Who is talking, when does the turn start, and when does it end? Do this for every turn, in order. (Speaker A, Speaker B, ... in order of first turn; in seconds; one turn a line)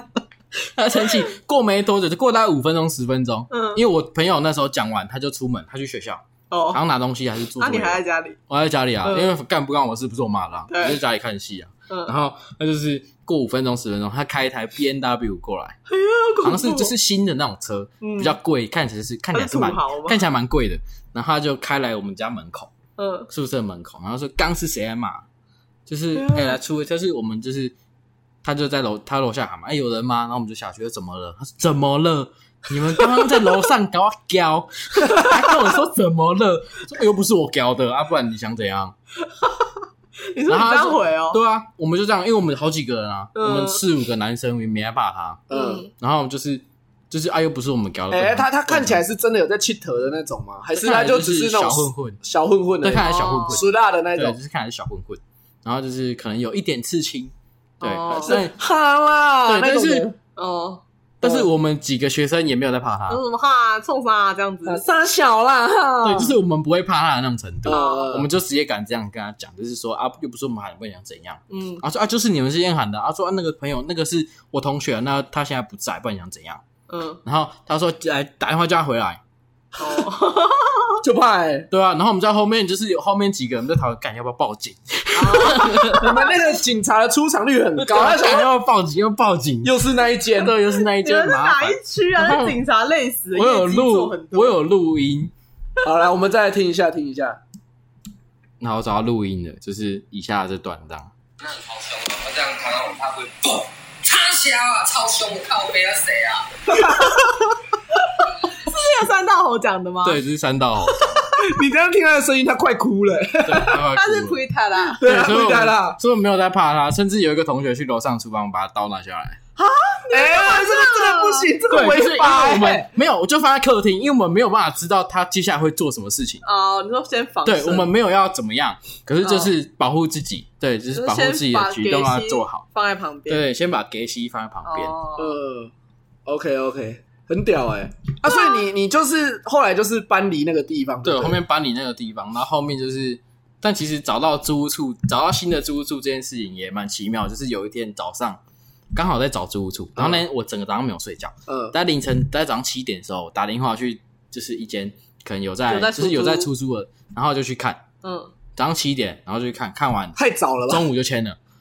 Speaker A: 0.7-15.8
Speaker B: 3.5-3.8
Speaker B: 6.5-6.8
Speaker B: 7.6-8.4
Speaker B: 9.0-9.3
Speaker B: 10.7-11.0
Speaker B: 15.9-16.9
Speaker A: 16.4-22.7
Speaker B: 18.0-18.4
Speaker B: 19.3-20.2
Speaker B: 23.0-23.3
Speaker A: 23.3-25.2
Speaker A: 25.9-27.7
Speaker B: 26.1-26.6
Speaker A: 28.4-38.9
Speaker B: 35.0-35.3
Speaker B: 39.3-41.4
Speaker A: 40.5-49.0
Speaker B: 43.3-43.8
Speaker C: 45.5-45.8
Speaker B: 45.5-45.9
Speaker C: 48.1-54.4
Speaker A: 50.7-52.2
Speaker A: 52.8-58.5
Speaker B: 52.9-53.6
Speaker B: 57.8-58.4
Speaker C: 58.2-60.1
Speaker A: 59.4-60.1
Speaker B: 60.3-60.8
Speaker A: 61.2-63.2
Speaker C: 61.2-61.5
Speaker B: 63.1-64.8
Speaker C: 64.7-66.3
Speaker A: 66.0-76.6
Speaker C: 67.6-68.3
Speaker B: 67.7-68.1
Speaker B: 71.5-71.8
Speaker B: 76.9-77.2
Speaker A: 77.2-79.2
Speaker B: 79.8-81.0
Speaker C: 81.0-81.7
Speaker A: 81.7-86.2
Speaker B: 85.1-86.2
Speaker C: 85.9-88.5
Speaker A: 87.8-89.8
Speaker C: 89.6-90.5
Speaker A: 90.3-92.6
Speaker B: 90.8-94.6
Speaker A: 93.3-95.3
Speaker C: 95.8-97.4
Speaker A: 98.6-101.1
Speaker D: 101.4-106.5
Speaker C: 106.7-107.3
Speaker B: 108.5-110.2
Speaker A: 110.0-111.3
Speaker B: 110.9-111.2
Speaker C: 111.3-113.8
Speaker A: 113.4-114.4
Speaker B: 113.9-115.0
Speaker A: 115.0-119.4
Speaker C: 115.0-116.0
Speaker B: 119.5-121.5
Speaker C: 120.1-122.9
Speaker A: 121.7-126.4
Speaker B: 126.4-127.9
Speaker A: 127.4-132.6
Speaker B: 129.2-129.5
Speaker B: 130.9-133.4
Speaker A: 133.3-134.9
Speaker B: 134.6-135.4
Speaker C: 135.2-135.7
Speaker C: 136.2-141.4
Speaker B: 138.3-138.5
Speaker A: 141.0-148.4
Speaker A: 148.9-157.8
Speaker C: 150.0-150.2
Speaker C: 151.5-151.7
Speaker B: 155.7-156.5
Speaker B: 158.0-158.3
Speaker A: 158.6-161.4
Speaker C: 160.2-160.8